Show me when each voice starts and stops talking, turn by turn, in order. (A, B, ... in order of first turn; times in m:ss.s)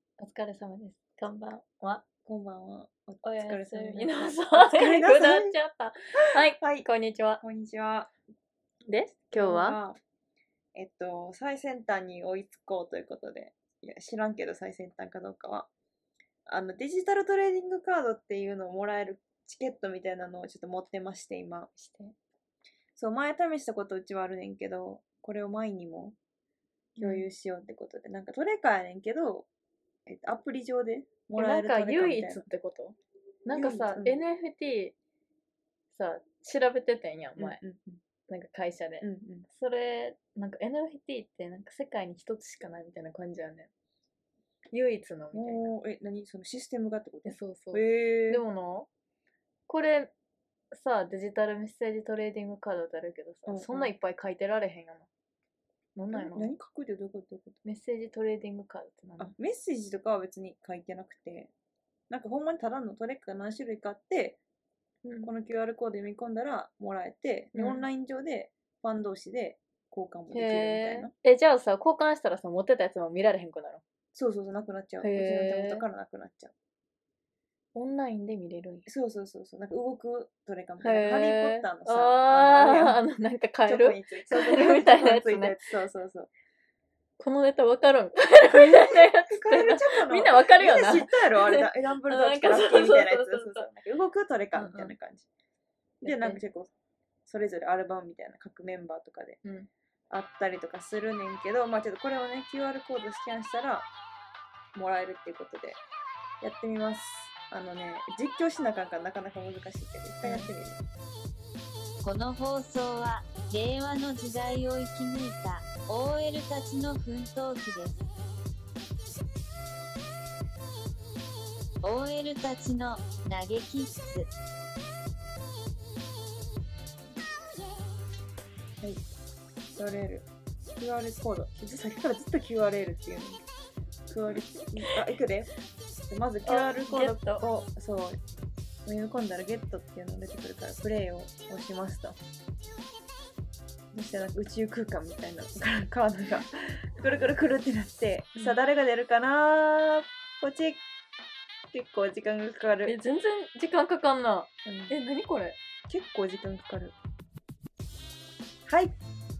0:00.2-0:02.0 A
0:02.2-0:05.6 B
0:03.2-0:07.4 A
0:06.2-0:06.9 B
0:07.4-0:08.1 B
0:08.8-0:09.8 A
0:09.3-0:10.0 B
0:10.7-0:15.7 B
0:16.4-0:21.7 B
0:21.8-0:22.1 A
0:23.0-0:26.2 B
0:27.0-0:27.3 A
0:27.0-0:29.5 B
0:30.0-0:32.5 B
0:31.3-0:34.9 A
0:33.5-0:34.2 B
0:35.9-0:37.6 A
0:37.4-0:38.0 B
0:38.3-0:43.7 A
0:39.0-0:39.5 B
0:44.7-0:45.7 A
0:45.3-0:48.4 B
0:47.2-0:48.9 A
0:49.7-0:50.1 A
0:50.7-0:55.1 A
0:53.4-0:53.9 B
0:55.9-0:56.5 A
0:56.1-0:57.6 B
0:57.6-0:59.3 A
0:59.2-1:01.5 B
1:02.1-1:04.4 B
1:05.0-1:05.3 A
1:05.2-1:11.1 B
1:07.5-1:07.8 A
1:10.3-1:13.8 A
1:14.1-1:16.5 B
1:15.0-1:15.8 A
1:17.7-1:18.9 A
1:18.8-1:23.0 B
1:20.8-1:25.6 A
1:23.6-1:26.3 B
1:27.2-1:33.7 A
1:28.5-1:35.3 B
1:34.5-1:34.9 A
1:36.0-1:36.7 B
1:36.0-1:36.4 A
1:37.2-1:39.4 B
1:39.4-1:39.7 A
1:40.1-1:43.9 B
1:44.7-1:45.8 B
1:46.4-1:50.8 B
1:50.2-1:50.5 A
1:52.0-1:58.0 C
2:01.8-2:04.3 C
2:09.7-2:13.4 B
2:14.1-2:15.5 B
2:16.1-2:18.2 B
2:16.4-2:17.4 A
2:18.8-2:22.2 B
2:23.9-2:30.8 B
2:31.7-2:33.0 B
2:32.8-2:35.6 A
2:34.6-2:35.0 B
2:35.9-2:36.9 B
2:38.6-2:39.0 B